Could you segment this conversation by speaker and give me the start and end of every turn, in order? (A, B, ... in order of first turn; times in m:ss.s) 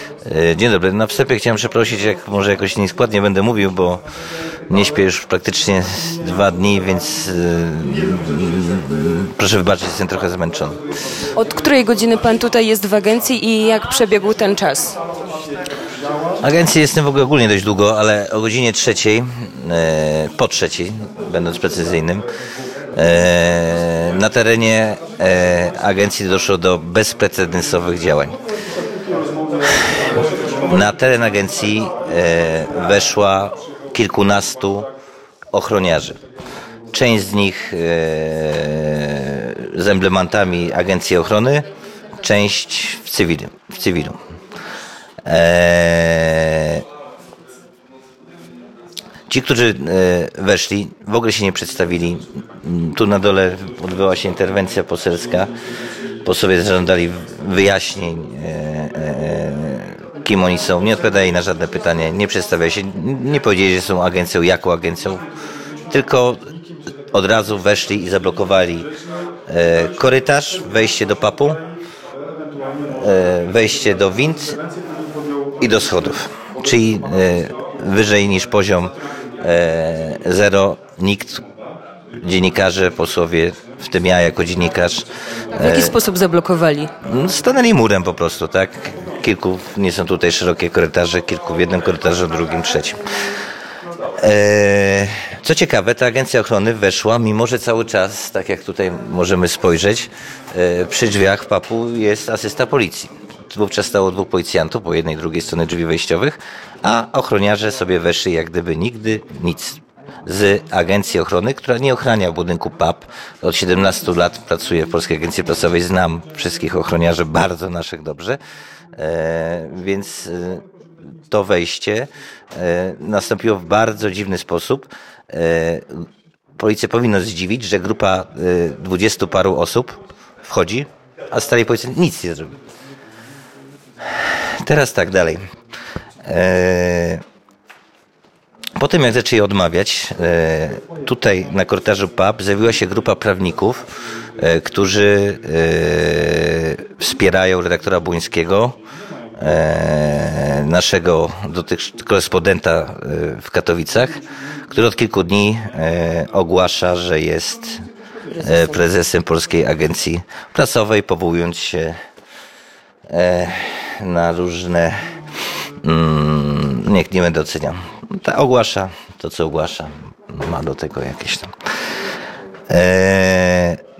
0:00.2-0:04.0 A
0:04.7-0:10.8 A
0:11.4-0:15.0 B
0:16.4-0:22.2 A
0:22.9-0:28.4 A
0:29.7-0:30.0 A
0:30.6-0:34.9 A
0:35.5-0:36.2 A
0:36.9-0:41.7 A
0:42.2-0:44.2 A
0:45.2-0:46.8 A
0:49.3-0:55.5 A
0:56.2-1:05.2 A
1:05.9-1:06.5 A
1:07.1-1:08.9 A
1:09.5-1:11.6 A
1:12.9-1:14.6 A
1:15.6-1:21.4 A
1:22.2-1:26.0 A
1:25.5-1:26.9 B
1:27.0-1:33.0 A
1:34.2-1:58.4 A
1:58.9-2:00.6 A
2:01.3-2:12.5 A
2:14.1-2:15.4 A
2:16.2-2:17.2 A
2:18.8-2:23.9 A
2:24.4-2:28.8 A
2:29.4-2:37.9 A
2:38.3-2:38.8 B
2:38.4-2:42.0 A
2:43.1-2:45.1 A
2:45.8-2:51.5 A
2:52.7-2:53.8 A